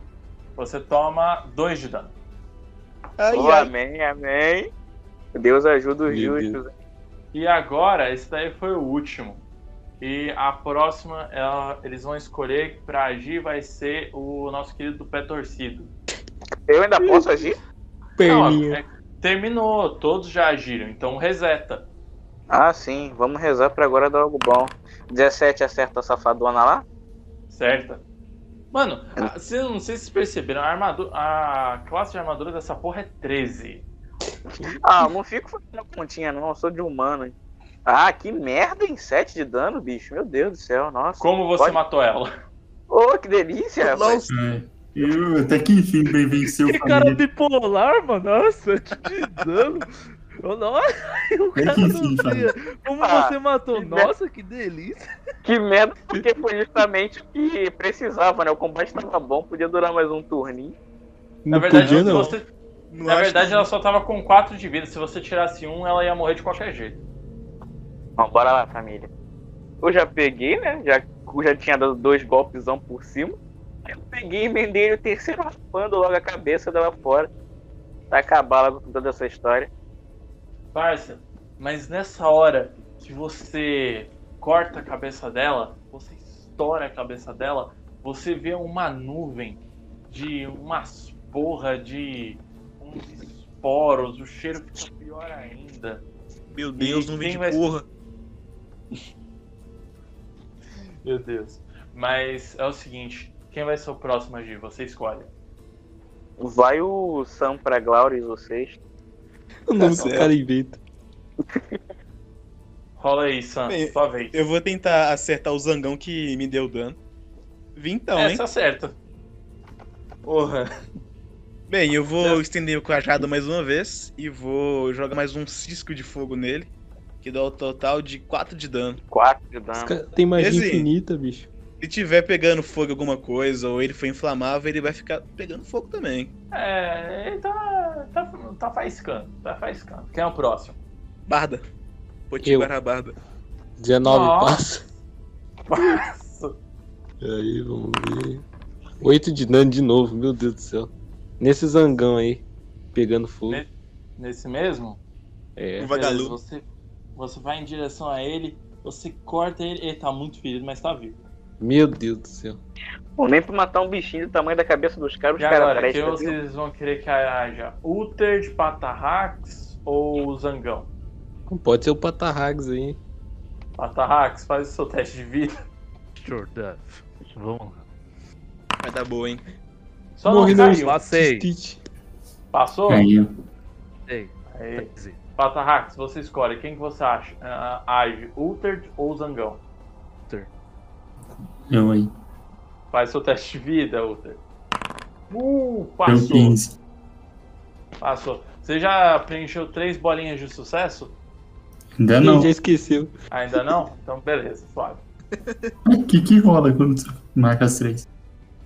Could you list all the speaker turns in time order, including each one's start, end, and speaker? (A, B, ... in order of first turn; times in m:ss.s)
0:00.6-0:02.1 A
0:03.2-0:03.7 B
0:03.3-0:04.7 C
0:05.3-0:06.7 C
0:06.1-0:06.6 D
0:07.3-0:09.4 A
0:10.0-0:15.9 A
0:16.7-0:17.6 C
0:17.0-0:17.3 D
0:18.2-0:18.8 D
0:18.2-0:21.9 A
0:22.5-0:26.8 C
0:27.5-0:28.0 A
0:28.7-0:33.8 A
0:34.6-0:35.0 D
0:34.8-0:37.3 C
0:37.8-0:41.8 C
0:41.2-0:42.3 A
0:42.9-0:44.3 C
0:43.8-0:44.3 B
0:44.3-0:47.2 E
0:46.7-0:55.0 F
0:51.5-0:52.5 E
0:53.0-0:54.1 C
0:55.4-1:00.8 C
1:01.4-1:02.4 D
1:01.5-1:02.4 A
1:01.8-1:02.2 B
1:02.9-1:03.7 B
1:03.1-1:07.0 A
1:08.2-1:09.1 C
1:09.8-1:13.4 C
1:13.9-1:17.3 C
1:18.1-1:19.7 C
1:20.7-1:36.0 A
1:36.5-1:37.8 B
1:36.8-1:37.7 A
1:41.0-1:45.3 A
1:46.4-1:48.8 C
1:49.7-1:50.8 D
1:49.8-1:50.3 B
1:50.0-1:50.3 A
1:51.5-1:51.8 C
1:53.0-1:54.4 A
1:53.7-1:57.0 B
1:57.8-1:58.4 B
1:58.1-1:58.9 A
2:00.2-2:00.7 A
2:01.7-2:06.7 B
2:07.2-2:09.0 B
2:09.1-2:10.0 C
2:09.7-2:11.5 D
2:10.4-2:10.9 B
2:11.8-2:16.3 B
2:16.5-2:20.8 A
2:21.3-2:21.6 B
2:22.3-2:23.1 B
2:22.4-2:22.7 D
2:23.8-2:24.8 D
2:24.0-2:24.7 A
2:25.7-2:26.5 A
2:27.2-2:28.4 D
2:29.0-2:32.4 D
2:32.9-2:33.6 D
2:33.5-2:35.0 A
2:35.6-2:35.9 D
2:35.8-2:36.4 B
2:35.8-2:36.6 A
2:37.2-2:41.2 A
2:41.6-2:42.6 D
2:43.2-2:46.3 C
2:45.4-2:50.9 A
2:51.5-2:53.0 D
2:53.8-2:55.6 A
2:56.2-2:57.9 F
2:58.8-2:59.4 B
3:00.2-3:01.0 A
3:00.2-3:01.8 D
3:00.5-3:01.5 F
3:02.5-3:03.1 A
3:02.9-3:03.3 E
3:04.1-3:05.2 F
3:04.5-3:09.6 A
3:11.7-3:12.1 E
3:12.9-3:14.4 A
3:15.3-3:16.6 A
3:16.0-3:16.8 E
3:18.0-3:21.1 A
3:22.0-3:22.5 E
3:22.2-3:23.1 D
3:23.3-3:25.0 A
3:25.4-3:25.7 B
3:25.9-3:28.0 E